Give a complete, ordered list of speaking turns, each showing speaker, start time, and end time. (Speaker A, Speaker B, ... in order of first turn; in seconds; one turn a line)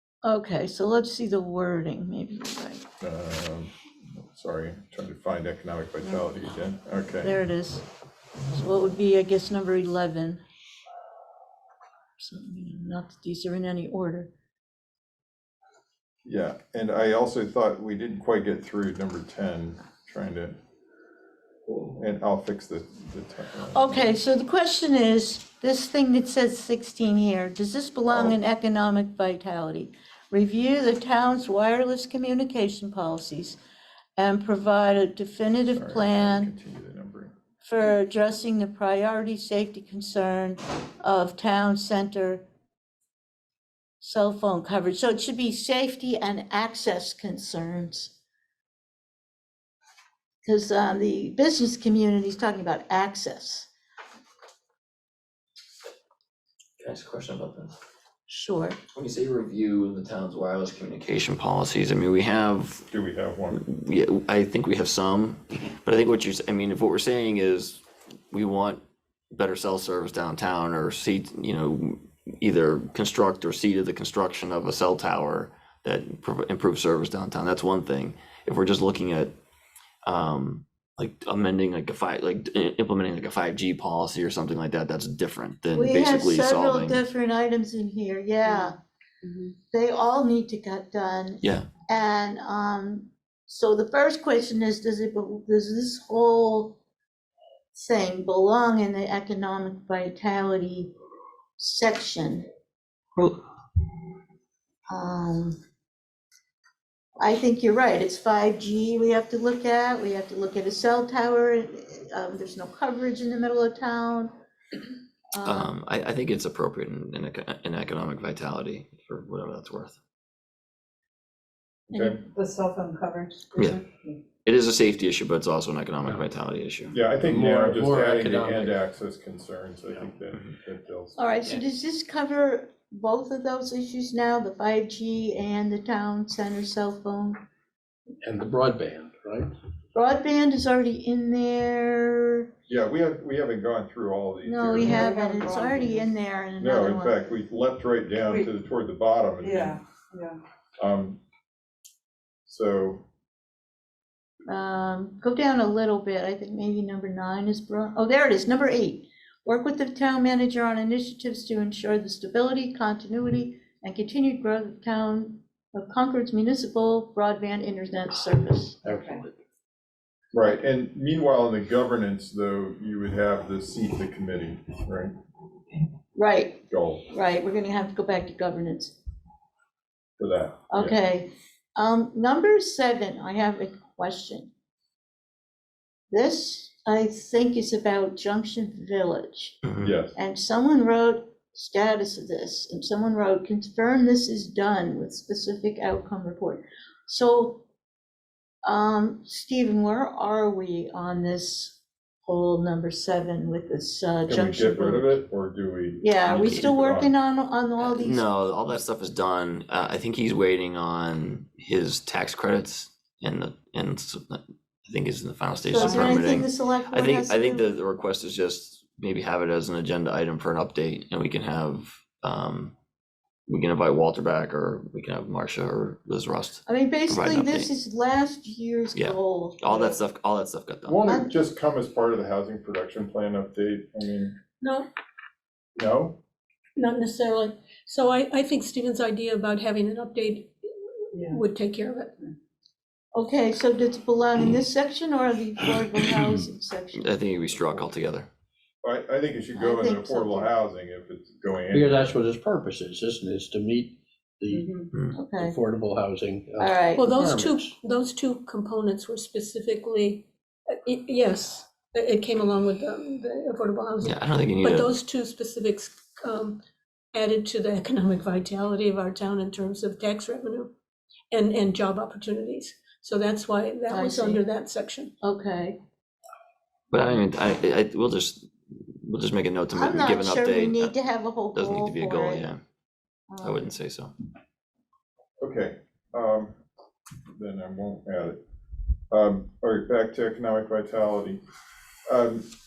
Speaker A: 0.2-2.9
Speaker B: 3.0-7.4
Speaker A: 7.2-7.8
Speaker A: 8.5-10.4
Speaker A: 12.2-14.3
Speaker B: 16.2-20.6
Speaker B: 21.7-24.2
Speaker A: 23.7-33.6
Speaker B: 28.1-28.4
Speaker A: 34.2-36.5
Speaker B: 35.6-37.3
Speaker A: 37.6-42.5
Speaker A: 44.0-48.1
Speaker A: 50.4-53.7
Speaker C: 56.8-57.8
Speaker A: 58.3-58.8
Speaker C: 58.9-62.9
Speaker B: 62.9-63.6
Speaker C: 63.5-79.3
Speaker C: 80.0-87.0
Speaker A: 85.7-88.8
Speaker D: 88.5-89.5
Speaker A: 89.7-96.8
Speaker C: 91.4-91.7
Speaker A: 97.7-100.9
Speaker A: 101.6-102.5
Speaker A: 104.9-105.6
Speaker A: 107.2-114.3
Speaker A: 115.3-115.7
Speaker C: 115.4-120.0
Speaker B: 121.9-122.2
Speaker D: 121.9-124.2
Speaker C: 123.5-123.8
Speaker C: 124.5-127.0
Speaker B: 126.9-131.2
Speaker E: 127.3-128.8
Speaker A: 131.2-137.4
Speaker E: 138.2-139.5
Speaker A: 139.9-142.5
Speaker B: 142.7-145.1
Speaker A: 144.5-147.2
Speaker D: 144.8-146.1
Speaker B: 146.6-149.8
Speaker D: 149.4-150.4
Speaker B: 150.8-151.2
Speaker B: 152.5-153.0
Speaker A: 154.5-168.8
Speaker E: 168.8-169.4
Speaker D: 169.0-169.2
Speaker B: 170.3-175.1
Speaker A: 176.2-178.9
Speaker B: 176.7-177.1
Speaker B: 180.2-181.0
Speaker A: 180.7-184.5
Speaker A: 186.1-189.6
Speaker C: 189.7-189.9
Speaker B: 189.8-190.2
Speaker A: 190.1-197.6
Speaker A: 198.7-205.2
Speaker B: 204.3-207.1
Speaker A: 206.0-208.3
Speaker C: 206.3-206.7
Speaker C: 207.8-222.7
Speaker A: 215.7-217.7
Speaker D: 215.7-216.2
Speaker C: 223.5-227.7
Speaker A: 226.7-230.0
Speaker C: 228.9-231.0
Speaker B: 230.8-234.4
Speaker F: 234.6-234.9
Speaker B: 235.8-236.2
Speaker F: 236.8-240.5
Speaker F: 241.1-242.2
Speaker D: 241.1-241.4
Speaker A: 243.2-247.2
Speaker C: 246.9-248.3
Speaker B: 248.8-252.2
Speaker A: 249.5-250.5
Speaker E: 251.7-257.7
Speaker A: 255.1-255.6
Speaker A: 256.6-257.2
Speaker F: 256.9-260.3
Speaker F: 260.9-266.6
Speaker C: 264.0-264.9
Speaker F: 267.1-270.7
Speaker F: 271.3-275.1
Speaker A: 273.9-274.4
Speaker A: 275.2-275.8
Speaker C: 276.9-280.9
Speaker A: 279.7-282.5
Speaker C: 281.5-282.6
Speaker A: 283.3-283.7
Speaker C: 283.4-284.1
Speaker B: 285.4-286.6
Speaker B: 287.3-288.4
Speaker B: 289.1-291.4
Speaker B: 292.1-292.5